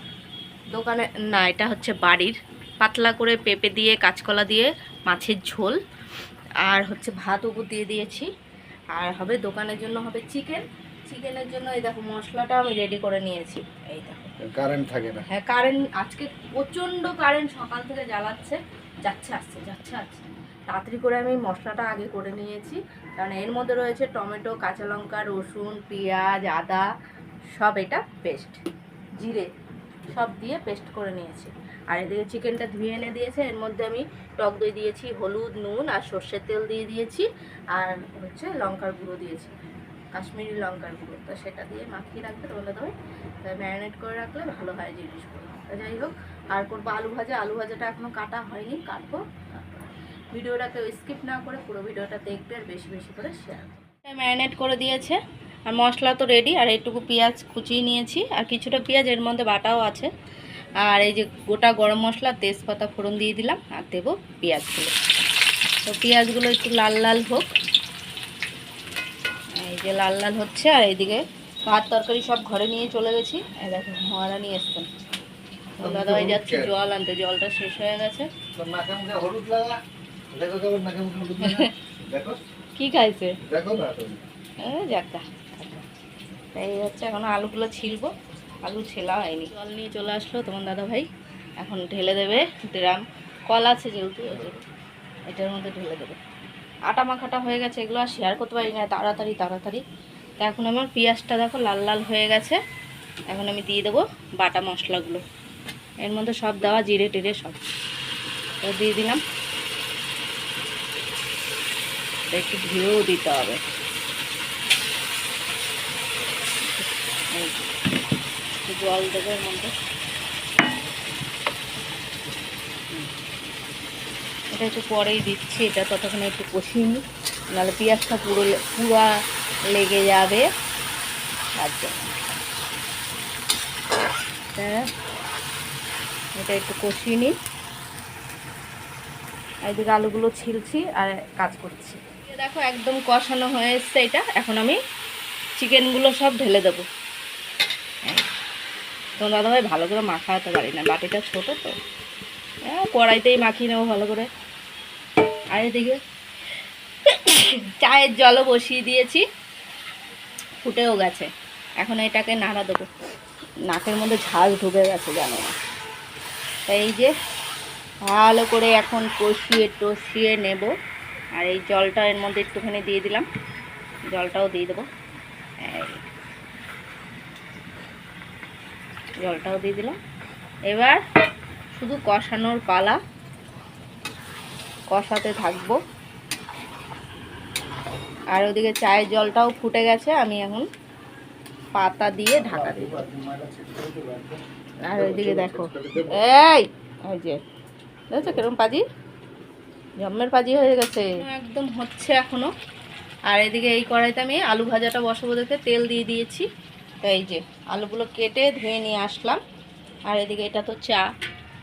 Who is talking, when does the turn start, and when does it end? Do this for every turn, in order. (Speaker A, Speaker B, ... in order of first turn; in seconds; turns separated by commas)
Speaker A: 0.7-5.8, Speaker A: 6.7-8.3, Speaker A: 8.9-14.4, Speaker B: 14.4-15.2, Speaker A: 15.3-26.9, Speaker A: 27.5-28.6, Speaker A: 29.2-29.5, Speaker A: 30.1-39.5, Speaker A: 40.1-60.1, Speaker A: 60.8-65.0, Speaker A: 65.8-67.5, Speaker A: 69.5-74.9, Speaker A: 75.8-78.3, Speaker B: 75.8-76.7, Speaker B: 78.5-79.8, Speaker B: 80.3-82.4, Speaker A: 81.4-81.7, Speaker A: 82.8-83.4, Speaker B: 83.4-84.2, Speaker A: 84.6-85.8, Speaker A: 86.5-91.1, Speaker A: 91.6-94.6, Speaker A: 95.3-96.2, Speaker A: 96.9-99.8, Speaker A: 100.4-102.6, Speaker A: 103.3-105.2, Speaker A: 106.0-107.6, Speaker A: 108.6-109.2, Speaker A: 112.3-113.6, Speaker A: 116.6-117.7, Speaker A: 118.7-119.7, Speaker A: 124.5-127.0, Speaker A: 127.5-129.1, Speaker A: 129.7-130.4, Speaker A: 131.6-132.2, Speaker A: 134.6-134.9, Speaker A: 136.4-137.3, Speaker A: 139.7-144.8, Speaker A: 145.6-146.8, Speaker A: 149.2-151.7, Speaker A: 152.7-154.3, Speaker A: 155.5-156.0, Speaker A: 157.1-159.2, Speaker A: 160.6-161.3, Speaker A: 161.8-162.9, Speaker A: 163.7-165.6, Speaker A: 166.7-167.1, Speaker A: 168.1-170.7, Speaker A: 171.3-173.3, Speaker A: 174.1-174.9, Speaker A: 175.6-176.0, Speaker A: 179.2-180.0, Speaker A: 180.7-181.0, Speaker A: 181.7-183.0, Speaker A: 184.9-185.8, Speaker A: 188.3-190.7, Speaker A: 191.8-193.1, Speaker B: 192.3-194.4, Speaker A: 194.8-197.4, Speaker B: 194.9-196.2, Speaker A: 198.1-198.8, Speaker A: 200.0-202.5, Speaker A: 203.3-206.5, Speaker A: 207.0-209.4, Speaker A: 210.1-211.1